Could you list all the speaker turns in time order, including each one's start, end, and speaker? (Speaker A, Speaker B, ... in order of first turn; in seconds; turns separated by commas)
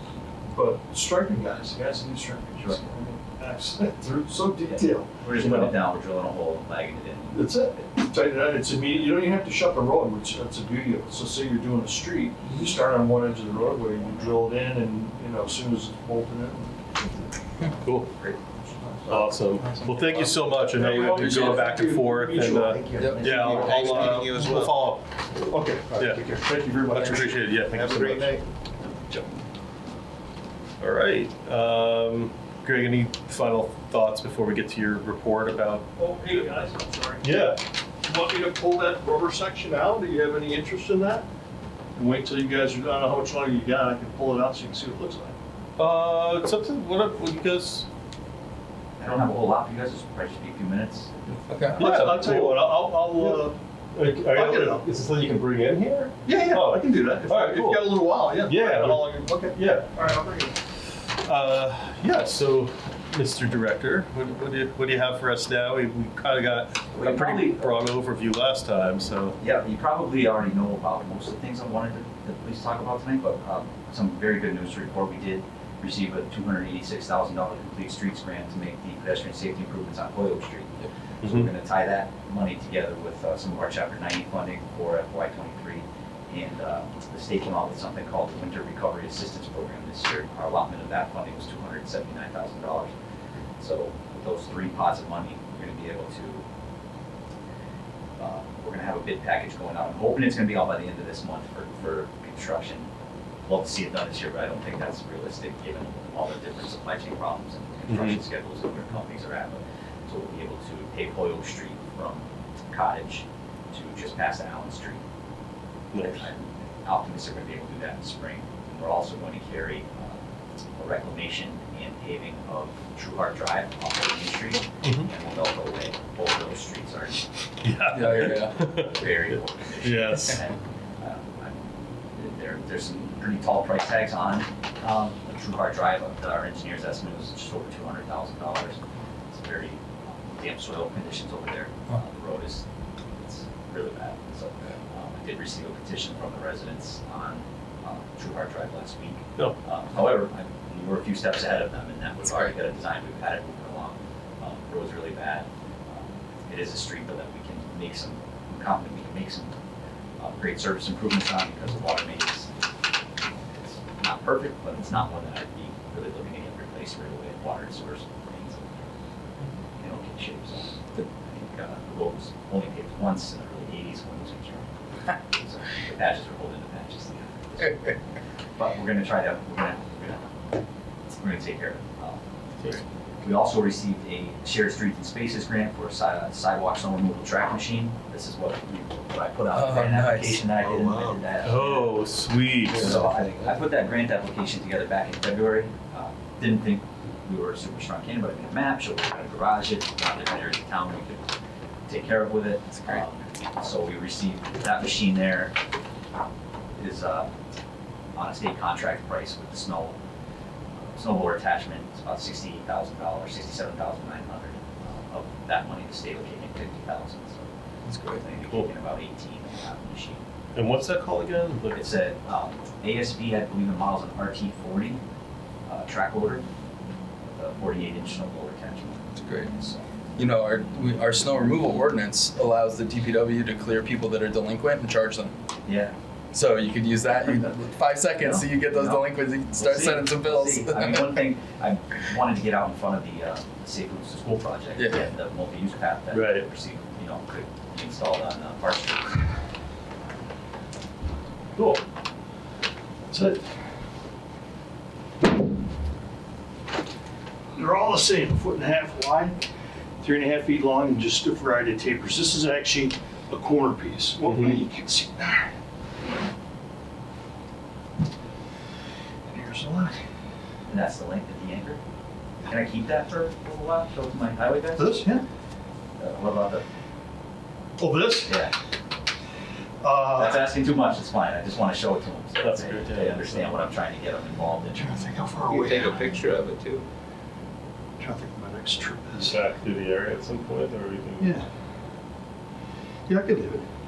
Speaker A: 0.5-5.8, Speaker B: 2.6-2.9, Speaker B: 4.7-8.0, Speaker A: 7.3-17.3, Speaker B: 8.6-9.1, Speaker B: 14.0-14.3, Speaker C: 17.8-18.1, Speaker A: 18.6-19.9, Speaker C: 19.1-25.1, Speaker D: 19.6-20.3, Speaker A: 20.7-24.0, Speaker D: 20.8-21.7, Speaker D: 23.0-23.4, Speaker E: 23.4-24.9, Speaker A: 25.4-28.4, Speaker C: 26.0-26.2, Speaker C: 26.9-28.4, Speaker C: 30.8-35.9, Speaker A: 36.0-37.4, Speaker C: 37.2-37.6, Speaker A: 38.0-41.3, Speaker A: 42.0-45.4, Speaker C: 45.8-47.9, Speaker B: 49.0-51.1, Speaker D: 51.5-51.8, Speaker C: 51.8-59.9, Speaker A: 51.8-53.6, Speaker A: 54.3-54.8, Speaker A: 56.2-60.6, Speaker C: 61.1-69.4, Speaker B: 67.0-67.6, Speaker B: 69.4-92.9, Speaker C: 81.2-81.5, Speaker B: 93.6-96.5, Speaker B: 98.2-102.9, Speaker B: 103.5-115.0, Speaker C: 107.9-108.2, Speaker C: 115.9-116.3, Speaker B: 116.0-120.2, Speaker B: 120.8-127.3, Speaker C: 127.6-129.1, Speaker D: 127.9-128.6, Speaker B: 128.0-131.6, Speaker C: 129.8-130.4, Speaker B: 132.2-138.8, Speaker B: 139.3-142.7, Speaker B: 143.2-159.5, Speaker B: 160.2-162.5, Speaker B: 163.5-168.9, Speaker B: 169.8-178.0, Speaker B: 178.6-180.4, Speaker B: 181.1-182.2, Speaker B: 182.8-192.1, Speaker D: 189.5-190.4, Speaker E: 190.6-191.2, Speaker C: 191.4-193.0, Speaker B: 192.7-201.3, Speaker E: 192.8-193.6, Speaker B: 201.9-205.6, Speaker D: 202.8-203.1, Speaker B: 206.8-207.3, Speaker B: 208.2-210.0, Speaker B: 210.9-217.5, Speaker D: 217.9-218.2, Speaker B: 218.1-220.2, Speaker C: 220.6-221.8, Speaker B: 221.7-225.0, Speaker B: 225.7-226.4, Speaker B: 227.3-229.8, Speaker D: 229.2-229.5, Speaker D: 230.2-235.3, Speaker B: 235.7-235.9, Speaker D: 236.3-241.2, Speaker B: 237.1-237.6, Speaker B: 238.2-249.2, Speaker D: 244.8-245.0, Speaker C: 246.1-246.5, Speaker A: 257.6-259.4, Speaker A: 260.0-265.4, Speaker C: 264.2-264.6, Speaker A: 269.3-269.9, Speaker B: 270.7-271.8, Speaker B: 272.5-275.1, Speaker A: 274.8-275.2, Speaker B: 276.0-276.6, Speaker A: 277.8-278.4, Speaker B: 278.2-278.6, Speaker A: 279.8-280.6, Speaker B: 280.1-285.0, Speaker C: 282.4-283.6, Speaker A: 284.8-286.1, Speaker E: 285.5-286.9, Speaker A: 288.0-289.4, Speaker C: 289.2-291.4, Speaker A: 291.2-291.5, Speaker A: 293.1-293.7